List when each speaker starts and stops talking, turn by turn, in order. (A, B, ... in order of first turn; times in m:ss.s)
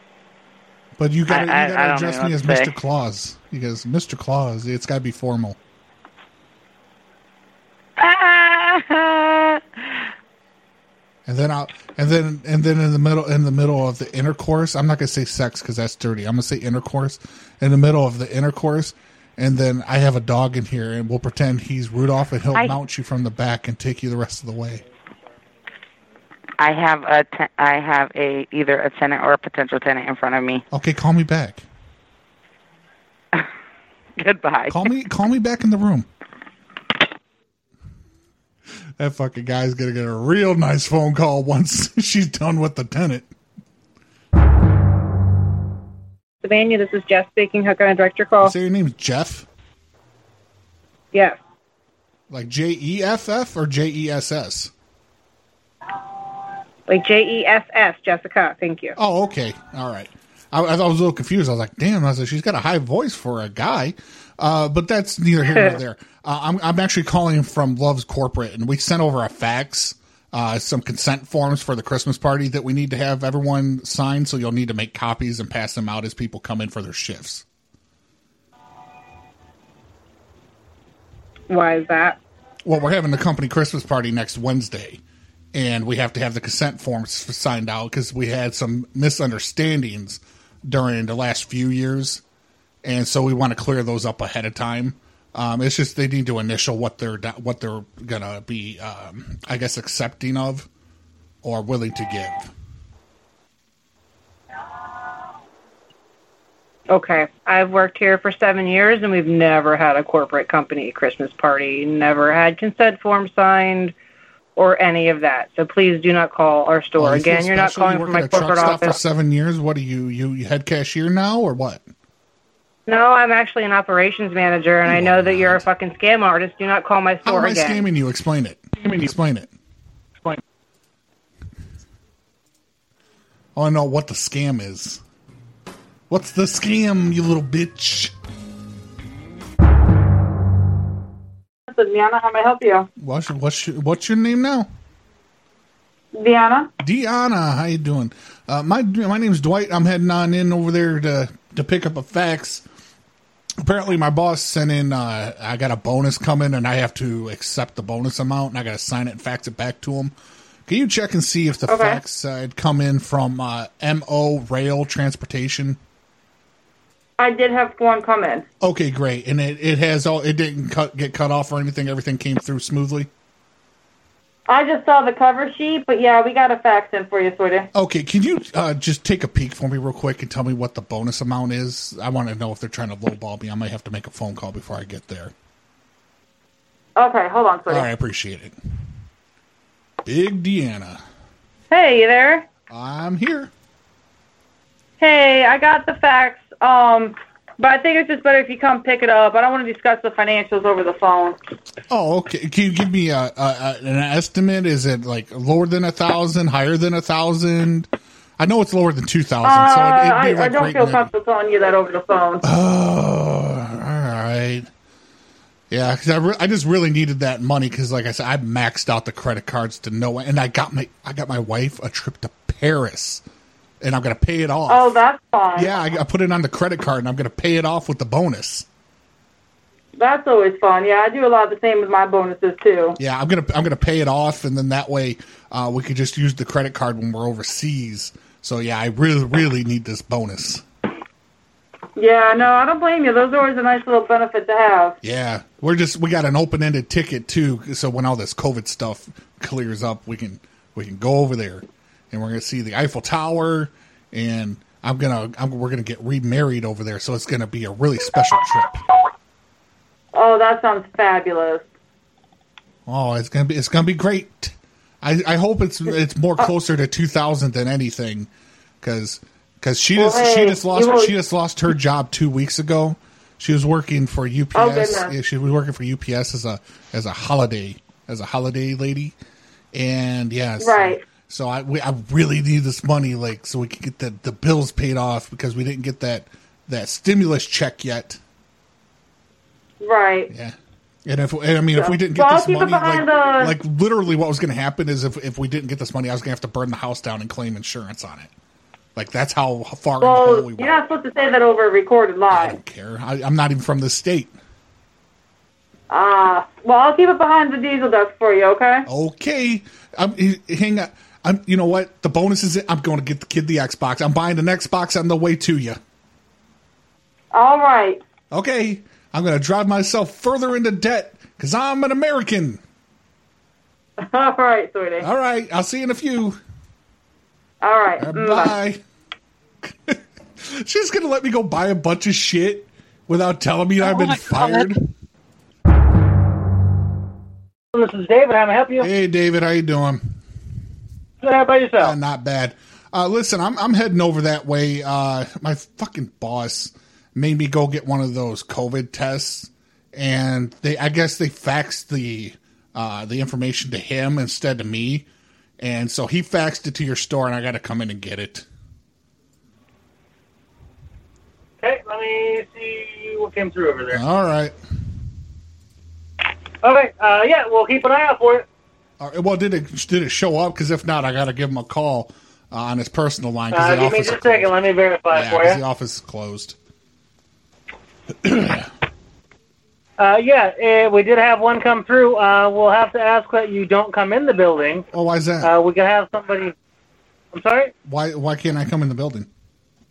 0:01.0-0:05.6 A
0:01.3-0:02.7 B
0:08.0-0:10.1 B
0:11.3-0:24.8 A
0:26.6-0:30.6 B
0:30.7-0:31.6 A
0:34.2-0:34.8 B
0:34.7-0:36.1 A
0:39.0-0:43.3 A
0:46.4-0:48.5 C
0:48.4-0:49.5 A
0:51.1-0:51.4 C
0:52.3-0:54.7 A
0:56.9-0:59.0 C
0:59.0-1:17.4 A
1:21.5-1:22.2 C
1:22.6-1:25.0 A
1:25.5-1:32.2 A
1:32.8-1:40.7 A
1:41.4-1:42.5 A
1:46.9-1:53.9 C
1:54.6-1:59.0 C
1:57.0-2:01.8 A
2:02.9-2:07.8 C
2:04.9-2:05.7 A
2:07.2-2:09.5 A
2:13.6-2:15.0 A
2:16.1-2:18.1 A
2:21.7-2:22.9 D
2:23.0-2:24.7 A
2:26.1-2:26.7 D
2:26.8-2:32.6 A
2:33.6-2:40.1 A
2:40.7-2:45.8 A
2:41.7-2:42.0 D
2:47.2-2:48.5 D
2:48.6-2:53.1 A
2:54.5-2:57.7 D
2:57.7-3:05.3 A
3:07.0-3:07.9 D
3:07.7-3:08.6 A
3:10.0-3:11.0 A
3:11.7-3:12.5 D
3:12.7-3:13.5 A
3:15.0-3:21.4 D
3:21.9-3:31.1 A
3:29.4-3:32.4 D
3:32.4-3:34.7 A
3:35.7-3:43.2 A
3:43.8-3:45.0 A
3:44.7-3:45.7 D
3:45.6-3:48.7 A
3:50.0-3:53.0 D
3:53.0-4:00.6 A
4:02.0-4:05.0 D
4:05.0-4:18.8 A
4:20.1-4:21.7 D
4:22.9-4:28.3 A
4:28.8-4:39.2 A
4:30.0-4:31.1 D
4:34.6-4:35.1 D
4:39.7-4:48.2 A
4:40.6-4:41.0 D
4:49.8-4:50.3 D
4:50.3-4:58.3 A
4:51.8-4:53.5 D
4:59.0-5:00.7 A
5:00.0-5:02.6 D
5:02.3-5:04.4 A
5:05.9-5:08.9 D
5:08.9-5:15.8 A
5:17.3-5:18.0 D
5:18.3-5:22.6 A
5:24.0-5:25.1 D
5:25.0-5:26.4 A
5:27.6-5:28.6 D
5:28.0-5:28.8 A
5:29.6-5:34.9 A
5:37.7-5:38.9 E
5:38.8-5:40.2 A
5:41.2-5:42.0 E
5:41.8-5:55.1 A
5:55.6-5:58.5 A
6:01.6-6:04.0 E
6:03.9-6:04.6 A
6:06.6-6:08.4 E
6:09.0-6:14.6 A
6:13.5-6:15.6 E
6:15.1-6:16.6 A
6:18.2-6:18.7 A
6:20.0-6:24.8 E
6:24.9-6:25.6 A
6:25.4-6:26.5 E
6:27.3-6:27.7 E
6:27.8-6:29.3 A